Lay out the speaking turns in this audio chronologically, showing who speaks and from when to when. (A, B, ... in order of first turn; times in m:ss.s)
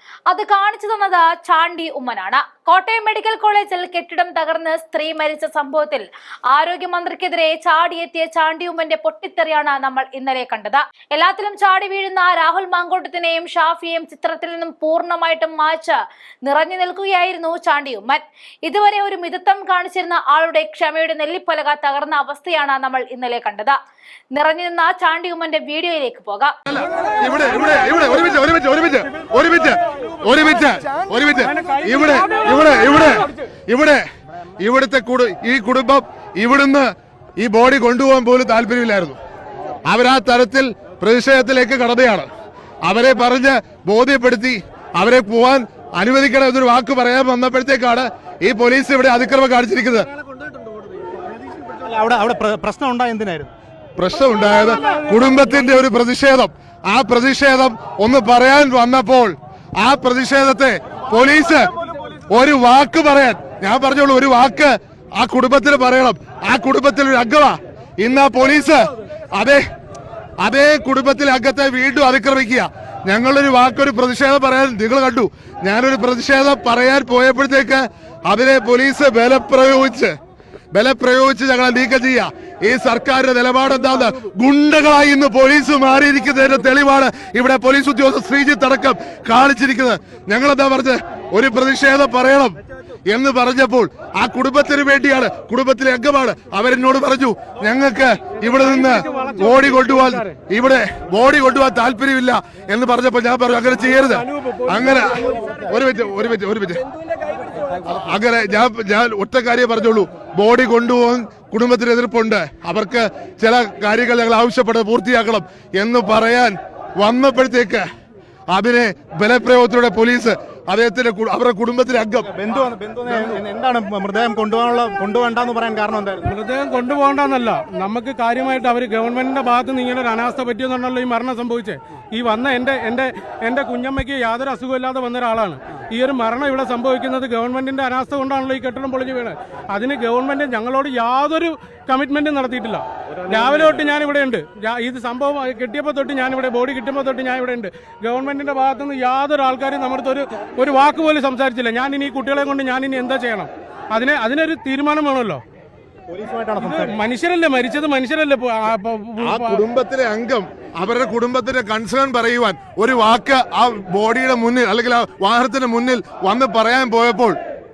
0:00.3-0:23.8 A
0:24.3-0:26.5 A
0:26.7-0:34.0 B
0:31.6-0:32.6 C
0:34.6-0:39.2 B
0:39.8-0:42.3 B
0:42.8-0:50.1 B
0:51.6-0:53.5 D
0:54.0-1:01.7 B
1:02.3-1:09.6 B
1:10.4-1:20.1 B
1:20.7-1:46.8 B
1:38.5-1:40.3 C
1:44.4-1:44.7 C
1:47.8-1:57.9 B
1:58.5-2:02.3 B
2:02.3-2:06.3 D
2:03.1-2:03.4 B
2:06.2-2:35.4 C
2:36.1-2:37.0 D
2:36.6-2:39.6 C
2:39.2-2:47.4 B